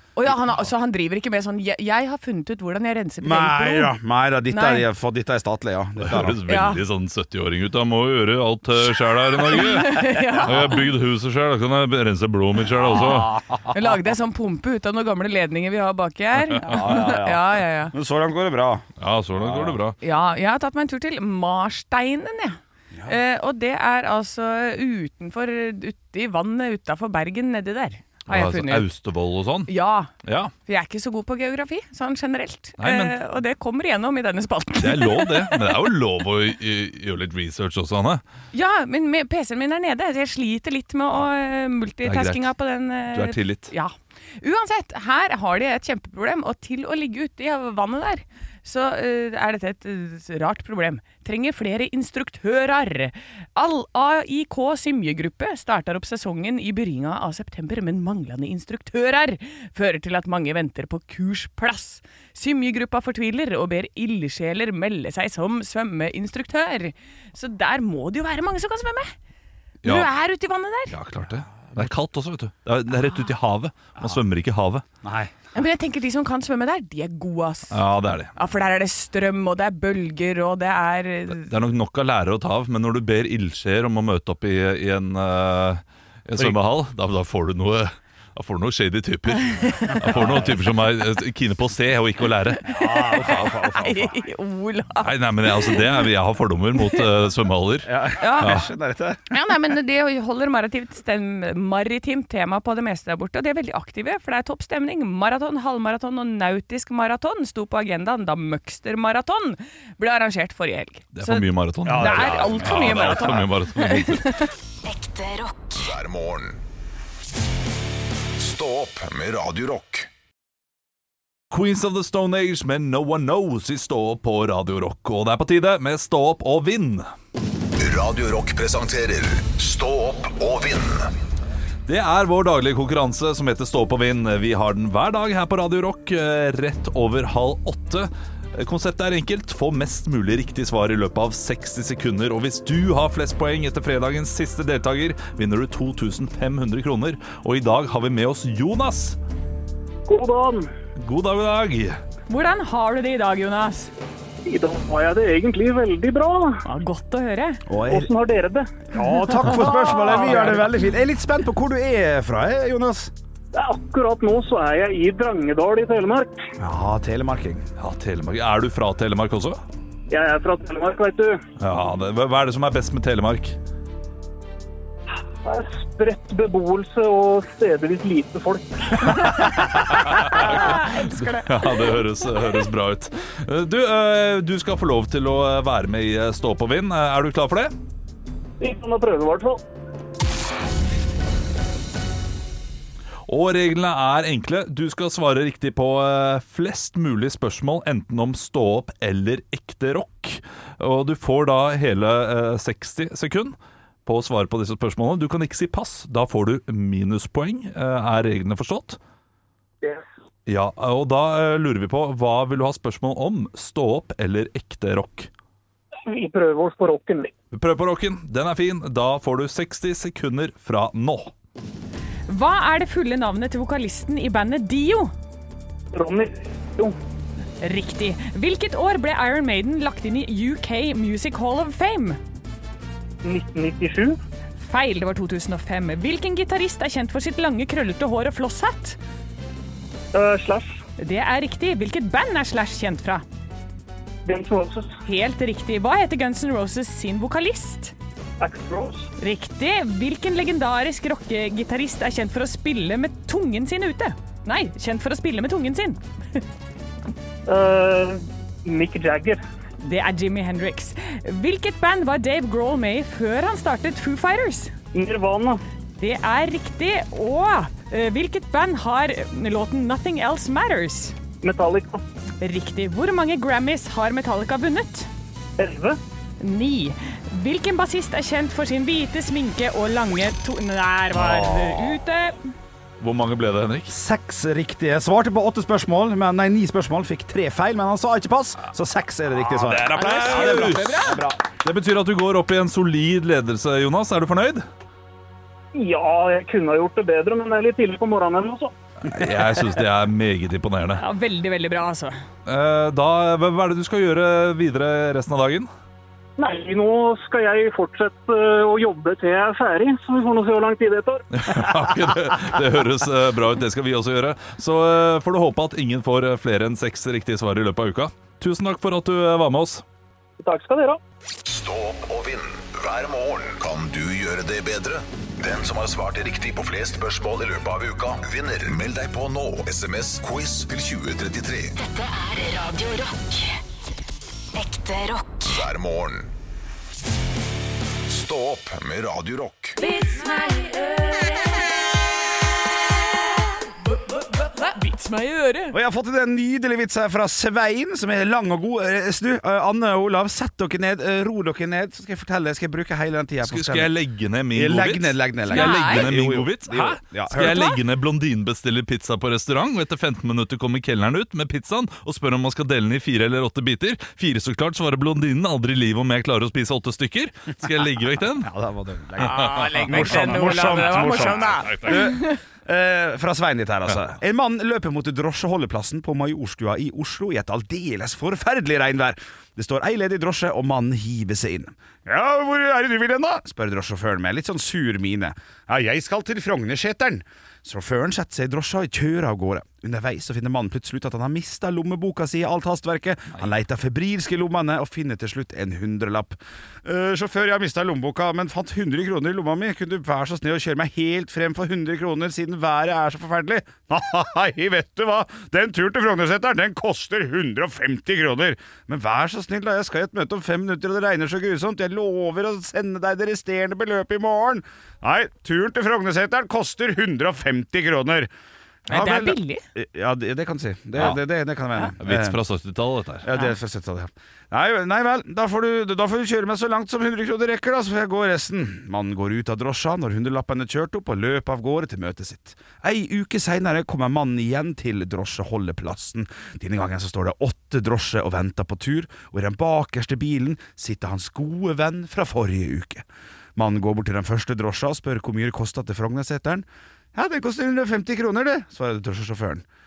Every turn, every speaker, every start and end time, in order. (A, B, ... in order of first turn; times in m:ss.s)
0:00.2-0:03.9 A
0:03.2-0:06.4 B
0:04.5-0:04.8 A
0:06.0-0:13.4 C
0:06.5-0:06.8 A
0:09.4-0:10.8 A
0:12.9-0:13.7 B
0:13.7-0:17.9 A
0:16.4-0:17.1 C
0:16.6-0:18.8 B
0:19.0-0:20.0 C
0:19.4-0:19.8 B
0:20.0-0:28.9 A
0:22.9-0:23.2 B
0:28.3-0:29.7 C
0:29.7-0:30.1 A
0:30.2-0:30.5 C
0:30.6-0:35.9 A
0:32.8-0:33.2 C
0:34.8-0:38.2 C
0:38.5-1:09.1 A
0:42.0-0:42.5 C
0:43.1-0:43.7 C
1:09.8-1:10.1 C
1:09.8-1:10.9 A
1:10.9-1:14.8 C
1:11.6-1:11.9 B
1:15.0-1:15.3 B
1:15.5-1:17.8 A
1:17.7-1:18.3 C
1:18.3-1:21.5 A
1:21.3-1:32.7 C
1:29.4-1:30.0 A
1:30.0-1:30.7 B
1:32.6-1:34.2 B
1:32.8-1:35.9 A
1:35.0-1:38.7 C
1:37.8-1:39.2 B
1:38.2-1:38.6 A
1:39.3-1:54.5 A
1:51.1-1:54.4 C
1:51.8-1:53.4 B
1:54.8-1:55.9 D
1:55.7-1:56.6 E
1:58.4-2:00.1 E
2:01.5-2:07.0 C
2:07.8-2:11.1 E
2:11.8-2:29.2 C
2:30.0-2:30.7 F
2:31.0-2:32.0 C
2:32.3-2:33.9 A
2:34.4-2:36.6 F
2:36.6-2:37.6 A
2:37.7-2:38.1 B
2:37.8-2:40.3 F
2:38.9-2:43.1 B
2:39.0-2:40.8 A
2:43.5-2:46.4 F
2:46.6-2:47.6 B
2:47.8-2:49.6 C
2:50.1-2:51.4 F
2:51.6-2:53.6 C
2:55.4-2:59.3 F
2:59.0-3:07.7 C
2:59.1-3:02.4 A
3:08.6-3:09.6 F
3:13.3-3:29.0 C
3:30.5-3:35.3 C
3:36.0-3:37.3 F
3:37.5-3:41.3 C
3:42.3-3:45.1 A
3:45.9-3:47.0 F
3:47.6-3:52.2 A
3:53.2-3:54.2 F
3:54.6-3:59.0 A
4:00.1-4:00.8 F
4:01.0-4:03.2 A
4:04.2-4:05.0 F
4:05.0-4:07.9 A
4:08.4-4:09.1 F
4:09.2-4:16.4 A
4:17.5-4:19.4 F
4:19.8-4:24.7 A
4:24.9-4:25.6 F
4:26.0-4:31.2 A
4:31.4-4:32.0 F
4:32.4-4:35.1 A
4:35.6-4:36.0 F
4:36.4-4:42.5 A
4:41.1-4:42.0 B
4:43.0-4:43.9 C
4:43.9-4:51.4 B
4:49.5-4:51.1 C
4:49.9-4:51.2 A
4:51.6-4:54.6 C
4:55.7-4:58.7 F
4:59.0-5:01.0 C
5:01.0-5:02.2 A
5:02.4-5:05.7 C
5:06.4-5:11.2 F
5:11.3-5:19.8 C
5:20.4-5:21.0 F
5:21.4-5:31.7 E
5:31.8-5:33.6 D
5:34.5-5:35.6 D
5:35.5-5:36.3 E
5:38.1-5:39.8 E
5:39.8-5:41.5 A
5:44.2-5:45.8 A
5:45.7-5:53.9 B
5:53.4-6:08.5 C
5:54.5-5:57.8 B
5:55.5-5:56.1 A
6:08.4-6:58.3 B
6:09.2-6:12.4 A
6:09.3-6:12.1 C
6:58.9-6:59.6 A
6:58.9-7:02.4 B
7:02.0-7:03.2 C
7:03.2-7:23.0 B
7:23.6-7:29.6 B